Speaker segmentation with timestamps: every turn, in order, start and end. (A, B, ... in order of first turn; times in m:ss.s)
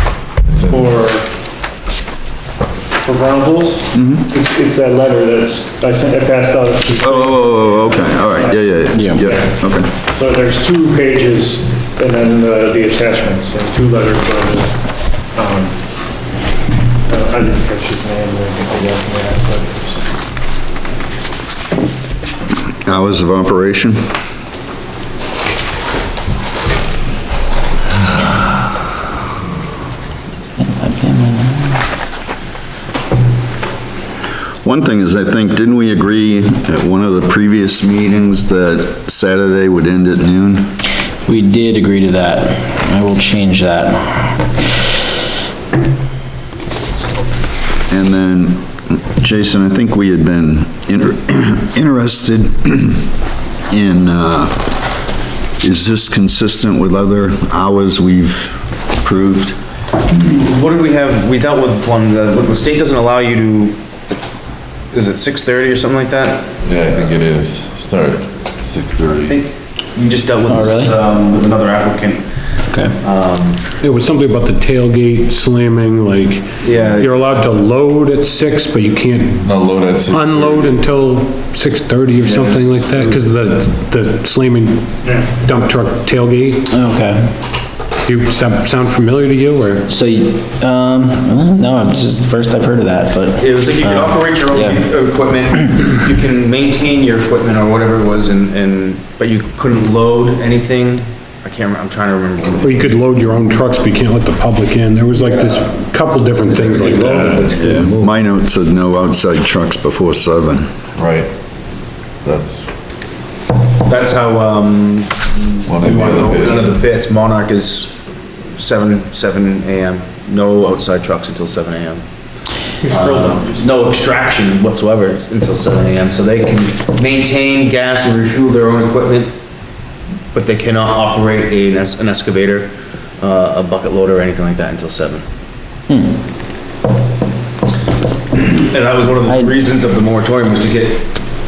0:00.5-0:01.0 A
0:00.7-0:01.3 B
0:03.0-0:15.8 B
0:03.9-0:04.3 C
0:07.0-0:09.9 C
0:08.9-0:09.2 D
0:17.0-0:20.2 B
0:22.8-0:24.1 C
0:30.6-0:31.8 D
0:34.6-0:40.7 C
0:41.3-0:44.5 D
0:47.9-0:53.0 C
0:53.7-0:54.6 C
0:55.6-0:59.6 C
1:00.1-1:03.8 E
1:04.9-1:06.5 E
1:06.6-1:09.4 A
1:09.2-1:13.7 E
1:10.5-1:10.9 D
1:12.7-1:13.0 D
1:13.8-1:19.4 F
1:16.6-1:17.4 E
1:19.4-1:20.8 A
1:20.1-1:26.7 F
1:22.2-1:23.1 A
1:26.7-1:27.4 D
1:28.0-1:29.8 F
1:29.9-1:34.8 D
1:33.4-1:43.1 E
1:42.6-1:47.6 F
1:45.1-1:45.7 E
1:46.8-1:47.2 B
1:47.5-1:50.7 C
1:51.0-1:51.3 A
1:52.2-1:52.7 A
1:53.8-1:58.0 E
1:55.7-1:56.7 A
1:58.5-2:02.0 E
2:02.9-2:09.3 E
2:02.9-2:03.6 B
2:10.3-2:15.2 E
2:15.9-2:16.2 D
2:18.3-2:21.1 E
2:19.3-2:19.5 D